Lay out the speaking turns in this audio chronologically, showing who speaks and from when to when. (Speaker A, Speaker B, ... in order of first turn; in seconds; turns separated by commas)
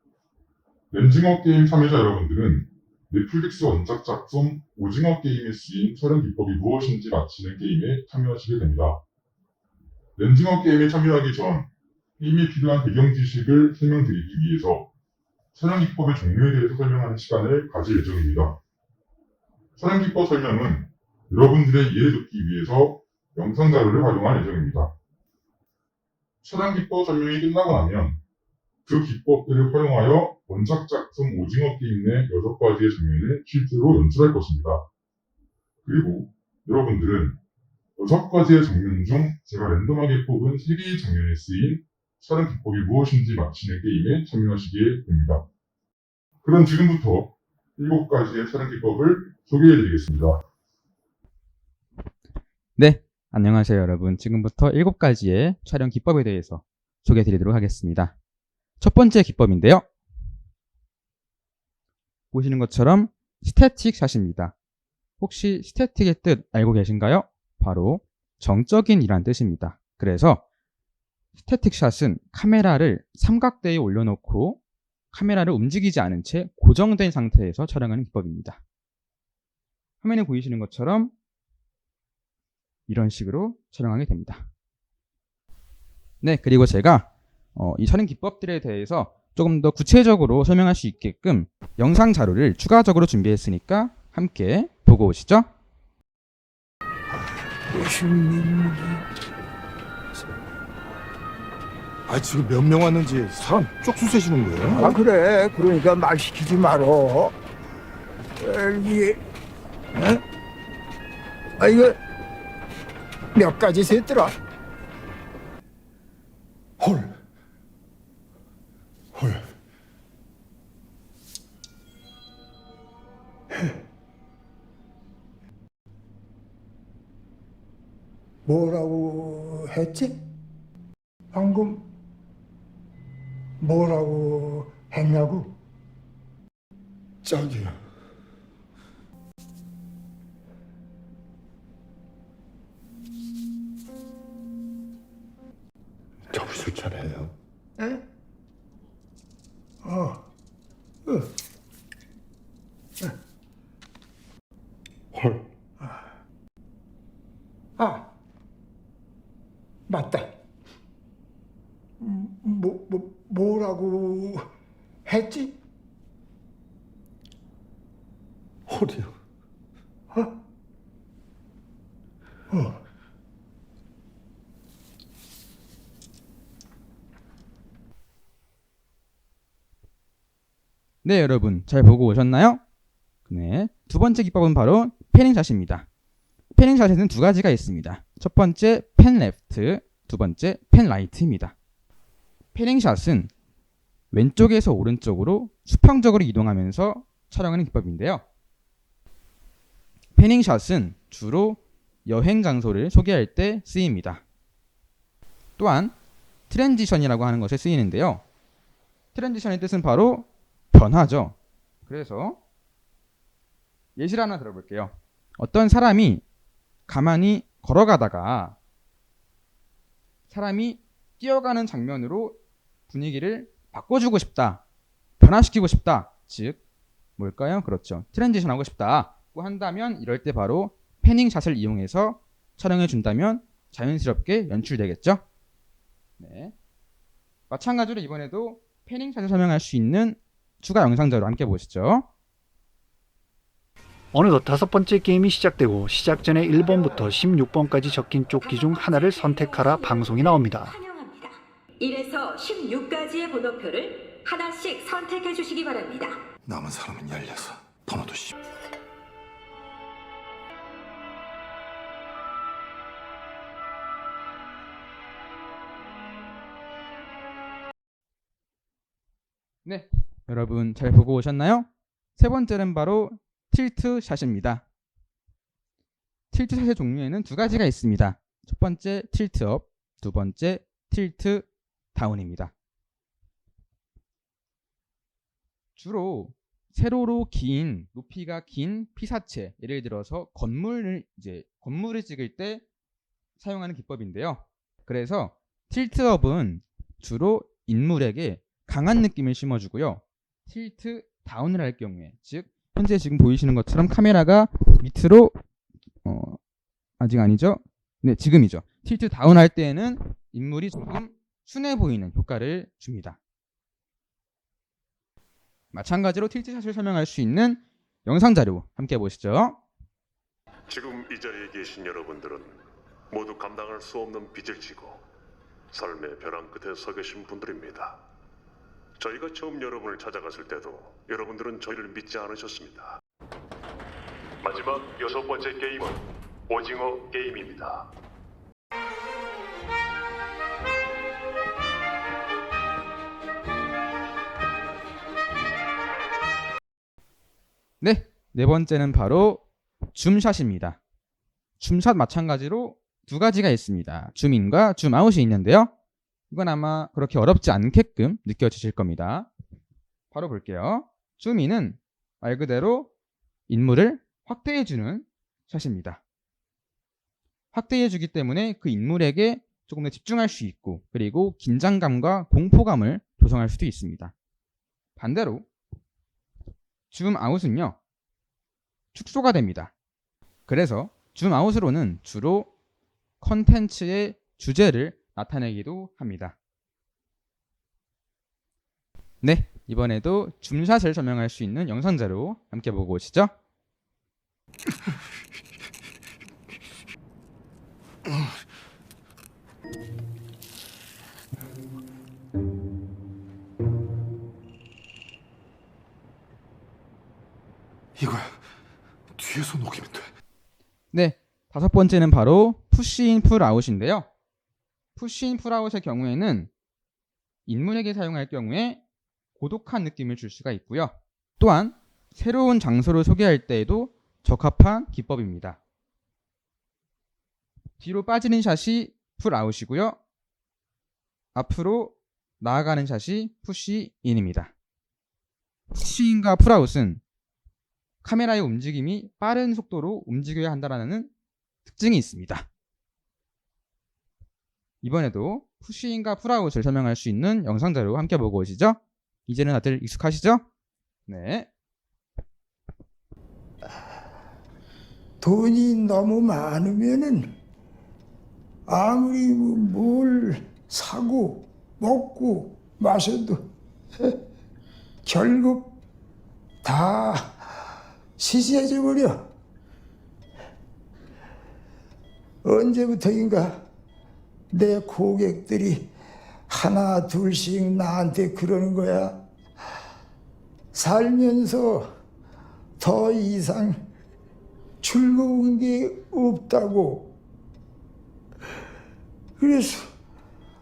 Speaker A: 0.9-9.0, Speaker A: 10.2-14.9, Speaker A: 15.5-18.6, Speaker A: 19.8-24.9, Speaker A: 26.4-28.2, Speaker A: 28.8-34.9, Speaker A: 35.8-37.4, Speaker A: 38.0-45.5, Speaker A: 46.4-50.4, Speaker B: 52.8-58.1, Speaker B: 58.8-59.9, Speaker B: 62.3-64.5, Speaker B: 65.2-70.4, Speaker B: 71.4-74.6, Speaker B: 75.1-78.6, Speaker B: 80.0-81.1, Speaker B: 82.9-84.5, Speaker B: 86.2-95.5, Speaker C: 97.7-99.0, Speaker D: 102.1-104.9, Speaker C: 104.6-107.3, Speaker C: 108.4-109.2, Speaker C: 111.6-112.0, Speaker C: 113.3-114.3, Speaker C: 116.8-117.1, Speaker C: 119.1-119.4, Speaker C: 128.4-130.2, Speaker C: 131.3-131.9, Speaker C: 133.6-135.6, Speaker C: 137.2-137.8, Speaker D: 146.3-147.3, Speaker C: 149.8-150.2, Speaker C: 157.8-158.1, Speaker C: 159.9-160.3, Speaker C: 162.0-164.4, Speaker C: 165.1-165.6, Speaker D: 168.7-169.1, Speaker B: 181.0-182.6, Speaker B: 183.2-185.9, Speaker B: 186.5-191.5, Speaker B: 192.5-193.3, Speaker B: 194.1-198.2, Speaker B: 200.2-204.2, Speaker B: 205.6-205.9, Speaker B: 206.5-208.2, Speaker B: 209.1-212.4, Speaker B: 213.9-216.2, Speaker B: 216.9-218.6, Speaker B: 220.3-224.6, Speaker B: 225.2-226.6, Speaker B: 227.2-235.2, Speaker B: 236.2-236.5, Speaker B: 237.5-242.1, Speaker E: 244.1-250.7, Speaker F: 248.4-250.1, Speaker F: 250.7-256.2, Speaker D: 256.4-258.3, Speaker B: 269.6-274.6, Speaker B: 276.3-282.5, Speaker B: 285.8-292.6, Speaker B: 293.4-305.4, Speaker B: 306.0-306.4, Speaker B: 307.0-313.2, Speaker B: 315.7-319.6, Speaker G: 320.7-322.6, Speaker G: 323.1-325.0, Speaker G: 325.7-328.0, Speaker G: 329.0-333.0, Speaker G: 334.4-337.8, Speaker B: 347.8-350.8, Speaker B: 351.6-355.7, Speaker B: 356.3-359.3, Speaker B: 360.1-362.9, Speaker B: 363.5-366.0, Speaker B: 367.5-374.1, Speaker B: 375.0-375.4, Speaker B: 376.9-377.8, Speaker B: 378.9-379.7, Speaker B: 380.5-382.5, Speaker B: 383.2-386.3, Speaker B: 389.2-393.3, Speaker D: 408.0-408.4, Speaker D: 409.1-410.1, Speaker B: 410.9-414.1, Speaker B: 414.9-416.5, Speaker B: 417.4-418.8, Speaker B: 419.4-425.6, Speaker B: 427.8-430.0, Speaker B: 431.3-434.5, Speaker B: 435.7-437.0, Speaker B: 438.0-441.1, Speaker B: 441.6-442.5, Speaker B: 444.8-450.4, Speaker B: 451.1-451.5, Speaker C: 455.2-457.3, Speaker C: 458.7-463.4, Speaker C: 465.0-465.8, Speaker C: 466.6-467.4, Speaker C: 468.2-469.2, Speaker C: 472.4-473.6, Speaker C: 474.5-475.9, Speaker C: 476.5-479.2, Speaker C: 480.7-481.9, Speaker C: 482.8-483.8, Speaker C: 484.8-487.1, Speaker C: 489.4-489.9